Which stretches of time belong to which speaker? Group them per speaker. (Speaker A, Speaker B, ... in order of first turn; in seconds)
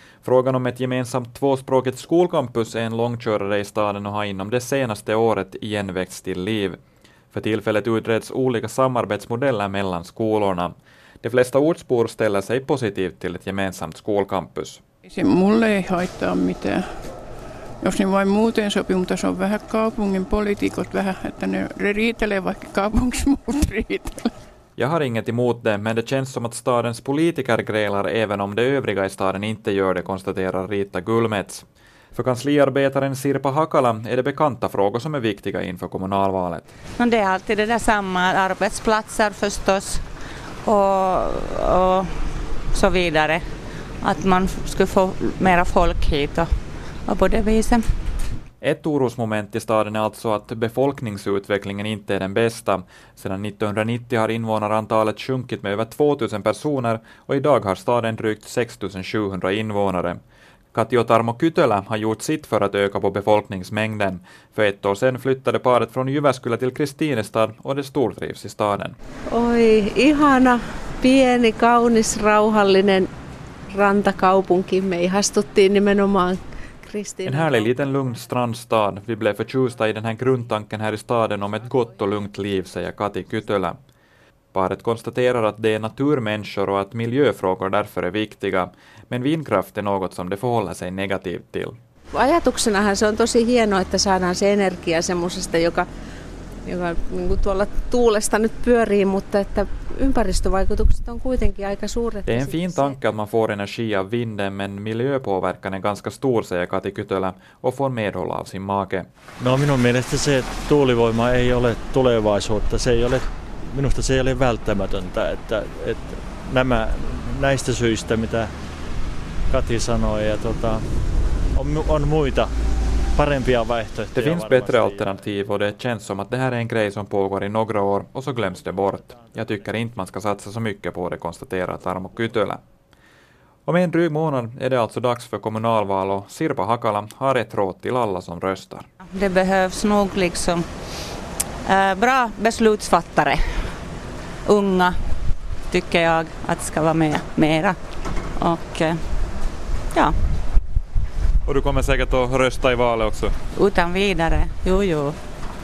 Speaker A: 0.2-6.8, 7.3-14.8, 24.8-36.6, 48.6-60.2, 60.7-69.0, 77.2-83.8, 84.5-91.8, 102.2-109.1, 124.1-132.6, 133.7-138.9, 151.4-153.3
Speaker B: 15.1-16.8, 17.8-24.3
Speaker C: 37.0-40.0, 40.6-42.1, 42.7-43.4, 44.0-46.5, 47.0-47.8, 139.1-140.6, 141.6-143.7, 144.4-144.9, 145.7-147.8, 148.4-149.0, 153.5-155.2
Speaker D: 69.3-73.1, 73.7-77.7, 92.1-95.9, 96.7-103.0
Speaker E: 109.4-118.5, 119.5-120.9, 121.5-122.6, 123.1-125.2, 128.5-129.7